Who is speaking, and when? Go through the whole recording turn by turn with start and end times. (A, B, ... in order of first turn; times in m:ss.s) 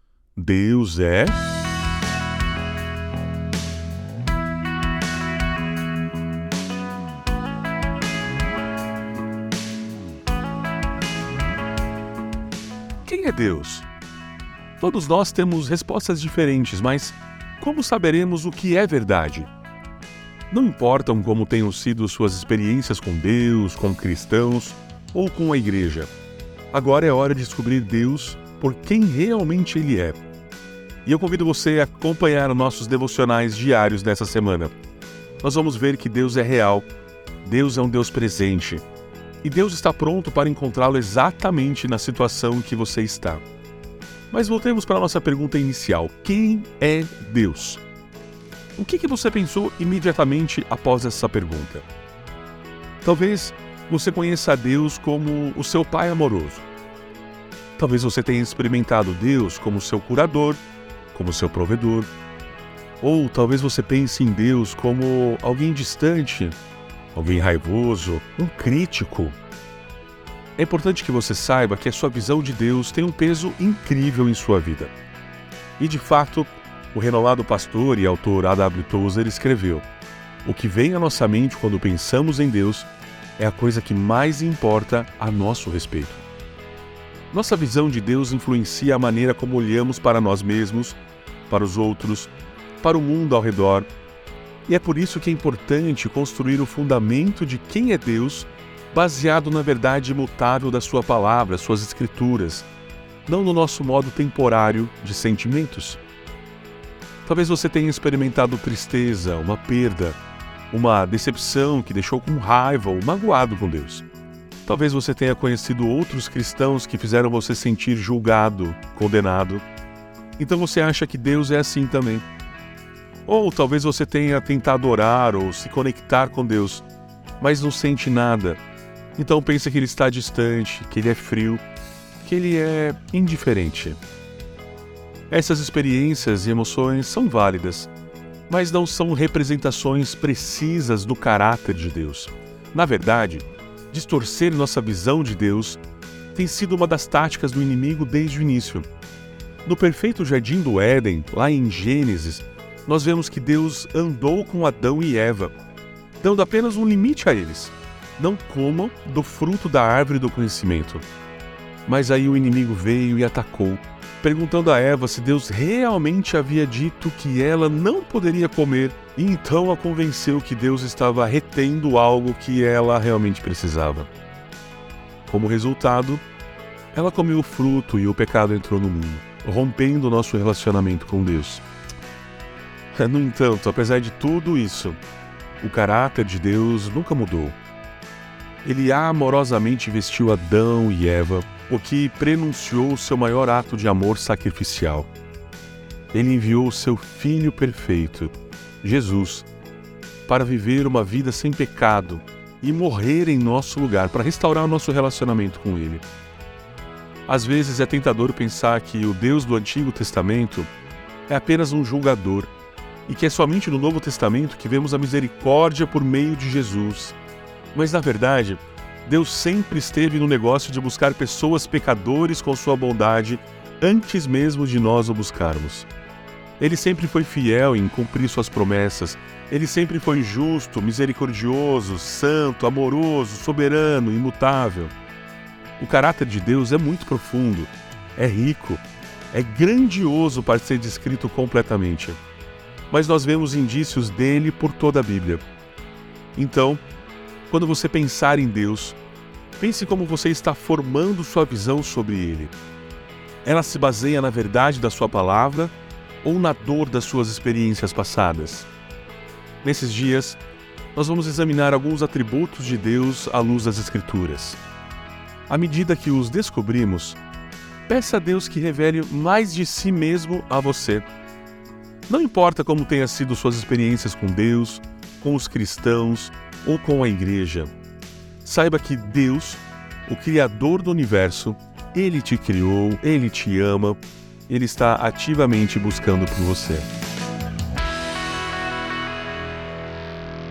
0:00.4-0:01.4 A
0:13.0-0:13.9 A
0:14.8-0:19.5 A
0:20.5-0:26.1 A
0:26.7-0:30.2 A
0:31.0-0:34.7 A
0:35.4-0:36.9 A
0:37.4-0:38.8 A
0:39.4-0:43.4 A
0:44.3-0:47.8 A
0:48.8-0:51.9 A
0:53.0-0:56.7 A
0:57.8-1:02.1 A
1:03.0-1:06.6 A
1:07.1-1:09.4 A
1:10.6-1:14.9 A
1:15.8-1:19.8 A
1:20.4-1:26.2 A
1:27.3-1:31.0 A
1:31.5-1:33.9 A
1:34.7-1:42.7 A
1:43.2-1:46.0 A
1:47.2-1:50.2 A
1:50.7-1:54.0 A
1:54.6-1:59.6 A
2:00.4-2:02.2 A
2:03.3-2:06.8 A
2:07.4-2:08.6 A
2:09.2-2:11.6 A
2:12.2-2:14.0 A
2:15.3-2:17.9 A
2:18.5-2:25.8 A
2:26.3-2:28.9 A
2:29.6-2:35.6 A
2:36.2-2:41.0 A
2:41.8-2:54.1 A
2:55.3-2:56.2 A
2:56.9-3:01.6 A
3:02.9-3:05.0 A
3:05.6-3:07.6 A
3:08.6-3:15.1 A
3:16.1-3:19.5 A
3:20.2-3:26.0 A
3:27.3-3:30.7 A
3:31.3-3:32.5 A
3:33.1-3:37.2 A
3:37.7-3:45.9 A
3:46.6-3:54.9 A
3:55.8-4:02.2 A
4:02.9-4:05.4 A
4:06.4-4:06.8 A
4:07.5-4:09.0 A
4:09.6-4:12.5 A
4:13.4-4:18.7 A
4:19.6-4:20.4 A
4:20.9-4:24.6 A
4:25.5-4:27.2 A
4:27.9-4:31.1 A
4:32.1-4:37.7 A
4:38.4-4:46.9 A